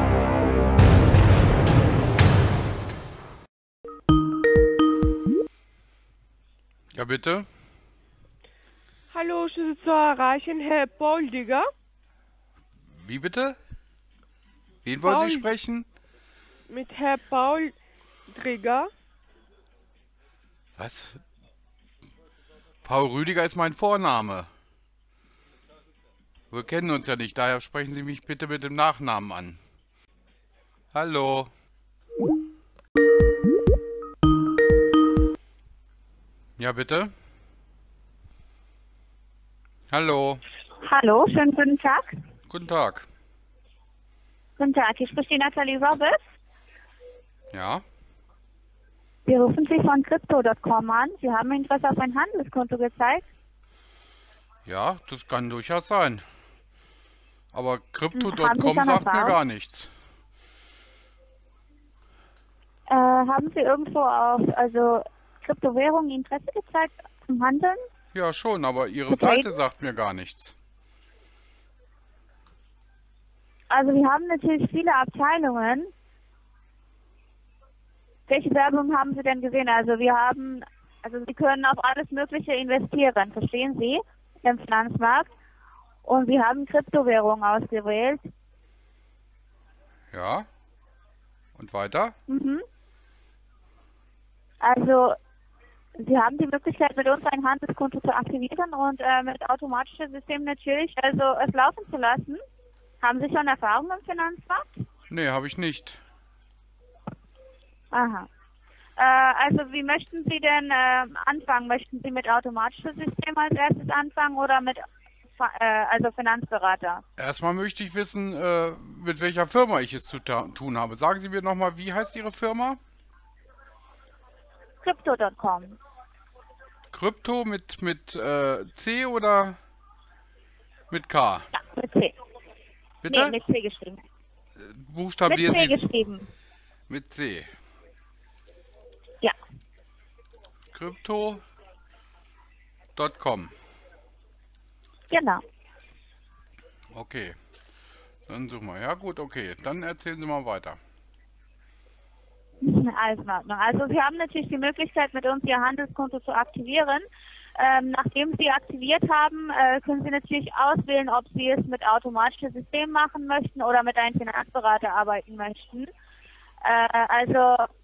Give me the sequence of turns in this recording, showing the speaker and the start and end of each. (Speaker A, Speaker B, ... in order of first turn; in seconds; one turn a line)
Speaker A: 6.9-7.5
Speaker B: 9.1-11.7
Speaker A: 12.9-13.6
Speaker A: 14.8-15.9
Speaker B: 15.0-15.5
Speaker B: 16.7-17.8
Speaker B: 18.3-18.9
Speaker A: 20.8-21.2
Speaker A: 22.9-24.5
Speaker A: 26.5-29.6
Speaker A: 30.9-31.5
Speaker A: 36.6-37.1
Speaker A: 39.9-40.4
Speaker C: 40.8-42.2
Speaker A: 42.5-43.1
Speaker C: 44.6-46.1
Speaker A: 47.5-47.8
Speaker C: 49.3-53.3
Speaker A: 54.7-56.2
Speaker A: 57.5-59.9
Speaker C: 58.1-59.4
Speaker C: 62.9-67.8
Speaker A: 68.1-70.5
Speaker C: 69.1-69.5
Speaker C: 73.7-75.9
Speaker C: 78.3-85.3
Speaker C: 86.0-88.3
Speaker A: 90.1-90.5
Speaker A: 91.6-92.2
Speaker C: 92.3-92.7
Speaker C: 94.6-95.2
Speaker C: 96.0-102.4
Speaker C: 103.0-104.8
Speaker A: 105.1-106.0
Speaker C: 107.9-108.3
Speaker C: 109.0-114.8
Speaker C: 115.4-117.0
Speaker A: 117.2-122.8
Speaker C: 124.8-125.8
Speaker A: 126.9-129.6
Speaker A: 130.9-131.5
Speaker C: 131.5-132.1
Speaker A: 133.0-133.4
Speaker C: 133.1-134.0
Speaker A: 134.6-135.8
Speaker C: 135.3-136.3
Speaker A: 136.9-137.5
Speaker A: 140.7-141.4
Speaker A: 143.0-143.5
Speaker C: 145.1-145.4
Speaker A: 146.9-147.3
Speaker A: 148.3-150.8
Speaker C: 152.6-165.9
Speaker C: 166.6-167.7